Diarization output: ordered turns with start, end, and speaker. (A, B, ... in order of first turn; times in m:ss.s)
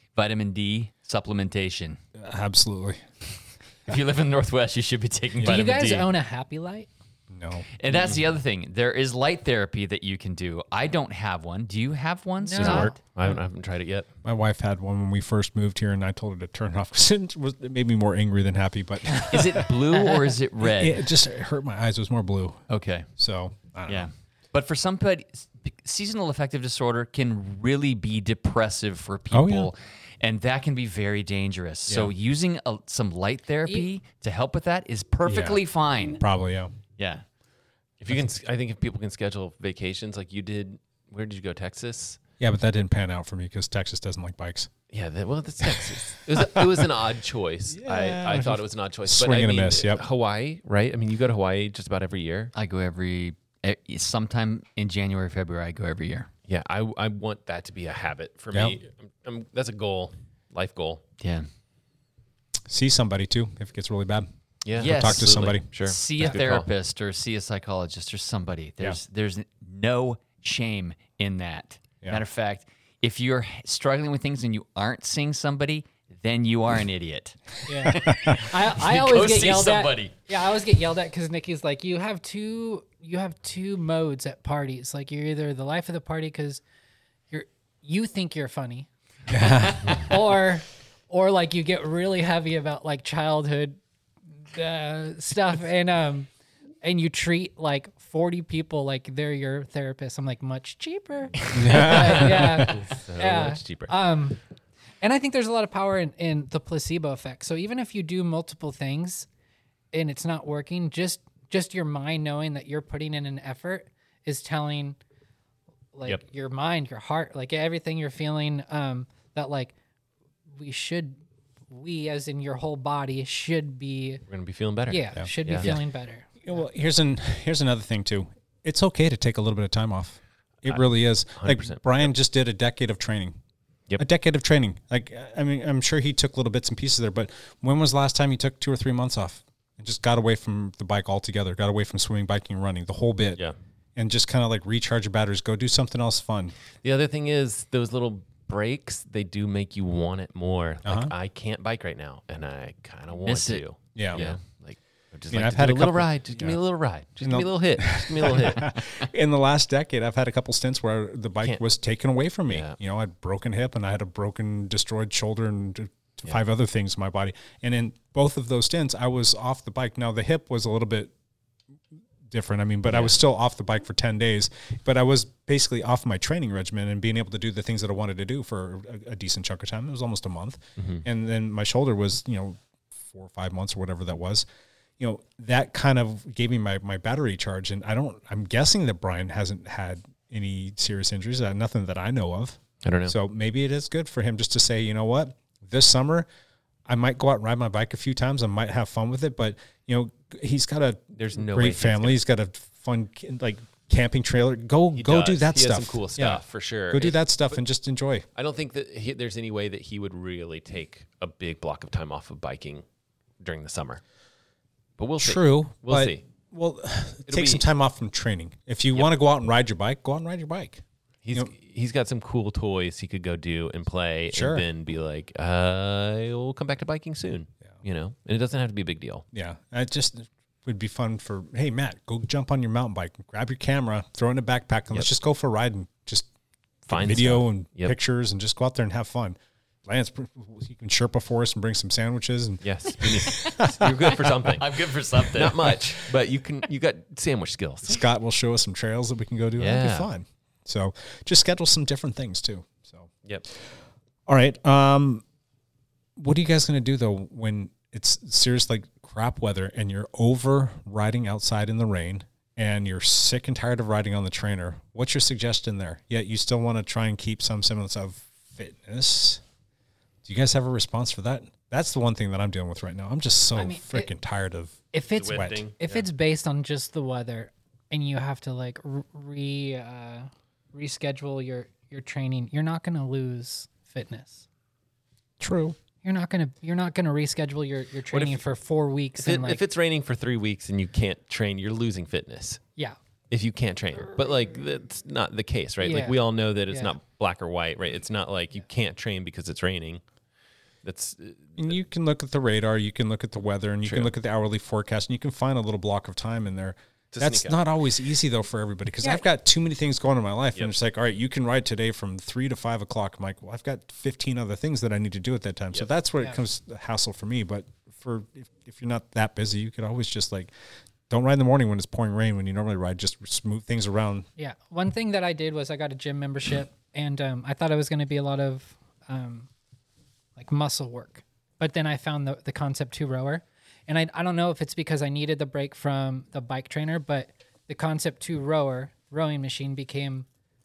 0:00.2-0:02.0 A
0:02.2-0:03.0 B
0:03.9-0:06.1 A
0:05.4-0:05.6 B
0:05.4-0:06.9 C
0:07.3-0:07.7 B
0:07.8-0:13.0 A
0:07.9-0:08.2 D
0:12.4-0:12.9 C
0:12.5-0:14.1 D
0:14.2-0:19.7 B
0:19.2-0:21.0 A
0:20.6-0:24.1 B
0:22.7-0:23.1 A
0:23.9-0:36.2 A
0:29.3-0:29.7 B
0:31.9-0:32.1 B
0:35.3-0:36.7 B
0:37.0-0:37.2 A
0:38.0-0:42.2 D
0:42.4-0:44.7 B
0:44.9-0:52.5 D
0:45.6-0:46.8 B
0:47.7-0:50.0 B
0:52.6-0:56.3 A
0:56.5-1:01.0 D
0:58.5-0:58.8 B
1:01.2-1:01.5 A
1:02.7-1:05.7 B
1:04.6-1:06.7 D
1:04.8-1:20.1 A
1:17.7-1:26.6 C
1:17.8-1:18.4 B
1:27.3-1:28.9 C
1:29.3-1:29.9 B
1:29.6-1:33.8 C
1:34.5-1:36.3 C
1:36.8-1:44.4 C
1:41.5-1:41.9 A
1:41.5-1:42.7 B
1:42.7-1:44.0 D
1:45.0-1:49.3 C
1:49.9-1:55.0 C
1:55.9-1:59.7 C
2:00.6-2:04.2 C
2:04.3-2:05.7 D
2:04.9-2:06.7 C
2:06.4-2:13.4 B
2:10.6-2:12.1 D
2:14.0-2:23.4 B
2:24.0-2:26.6 B
2:26.8-2:38.7 D
2:30.8-2:31.1 B
2:33.1-2:34.4 A
2:34.0-2:34.4 B
2:35.3-2:51.1 B
2:42.5-2:42.8 D
2:52.3-3:04.5 B
2:52.9-2:53.2 D
3:00.8-3:01.0 D
3:05.0-3:16.3 B
3:12.8-3:13.2 D
3:16.9-3:28.3 B
3:21.2-3:22.2 D
3:25.0-3:27.6 D
3:28.3-3:32.8 D
3:33.4-3:34.0 D
3:35.0-3:36.2 D
3:35.2-3:41.5 B
3:37.3-3:37.6 D
3:41.2-3:49.2 D
3:44.3-3:44.6 B
3:49.3-3:56.3 B
3:56.8-4:04.6 B
3:56.9-3:58.0 D
4:02.6-4:04.7 D
4:04.6-4:05.8 A
4:05.3-4:08.0 D
4:07.9-4:13.1 B
4:09.6-4:10.1 D
4:14.3-4:15.2 B
4:16.2-4:29.4 B
4:30.2-4:35.6 B
4:33.6-4:34.1 C
4:34.9-4:44.4 C
4:35.1-4:36.1 D
4:45.4-4:45.8 B
4:46.0-4:49.6 C
4:48.1-4:48.4 D
4:49.2-4:52.6 D
4:53.3-5:00.0 D
4:55.8-4:57.0 C
5:00.8-5:01.8 D
5:01.6-5:20.5 B
5:03.8-5:04.1 D
5:07.1-5:07.6 D
5:21.1-5:24.3 B
5:24.4-5:29.5 C
5:30.4-5:40.3 C